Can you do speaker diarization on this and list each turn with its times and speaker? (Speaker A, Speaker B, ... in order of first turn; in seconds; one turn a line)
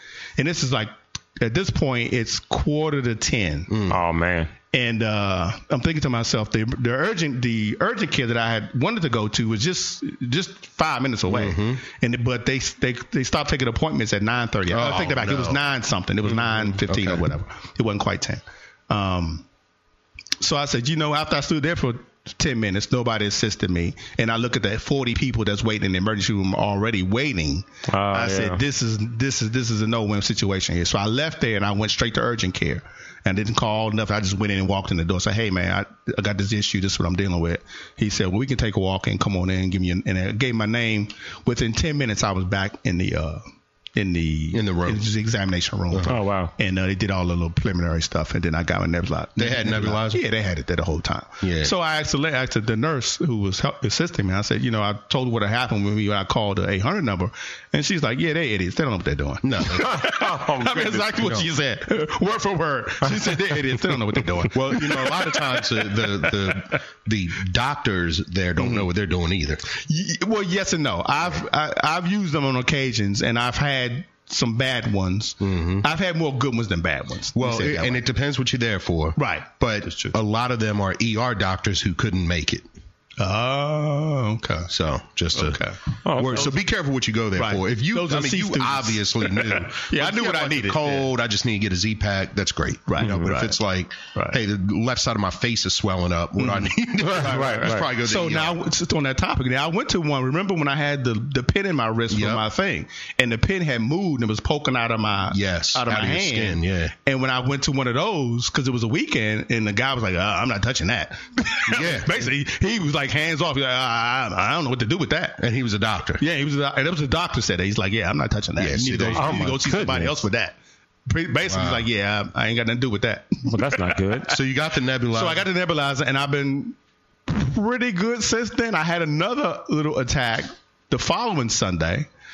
Speaker A: 0.4-3.7
Speaker B: 3.7-4.0
Speaker C: 3.9-4.5
Speaker A: 4.7-19.5
Speaker B: 11.3-11.8
Speaker B: 14.7-15.6
Speaker B: 16.9-17.3
Speaker A: 20.4-43.4
Speaker C: 27.9-28.6
Speaker A: 44.0-66.8
Speaker B: 44.5-45.0
Speaker C: 46.1-46.5
Speaker B: 49.4-50.2
Speaker B: 51.4-51.7
Speaker B: 59.4-59.9
Speaker C: 59.8-61.4
Speaker B: 61.2-61.5
Speaker B: 64.5-69.6
Speaker A: 68.6-68.9
Speaker A: 69.7-78.0
Speaker B: 75.4-75.8
Speaker B: 77.3-82.7
Speaker A: 79.2-80.2
Speaker A: 83.2-84.7
Speaker B: 84.7-98.6
Speaker A: 85.3-85.8
Speaker C: 86.0-86.5
Speaker A: 87.4-91.1
Speaker A: 92.9-93.6
Speaker A: 96.4-115.4
Speaker C: 97.0-97.9
Speaker B: 102.1-102.4
Speaker B: 105.3-106.9
Speaker B: 111.7-112.2
Speaker B: 115.4-116.2
Speaker A: 116.2-120.6
Speaker B: 118.6-119.6
Speaker C: 119.1-120.2
Speaker A: 121.1-124.0
Speaker B: 121.5-121.8
Speaker C: 123.5-124.3
Speaker B: 124.3-125.5
Speaker A: 125.1-126.8
Speaker A: 127.3-132.1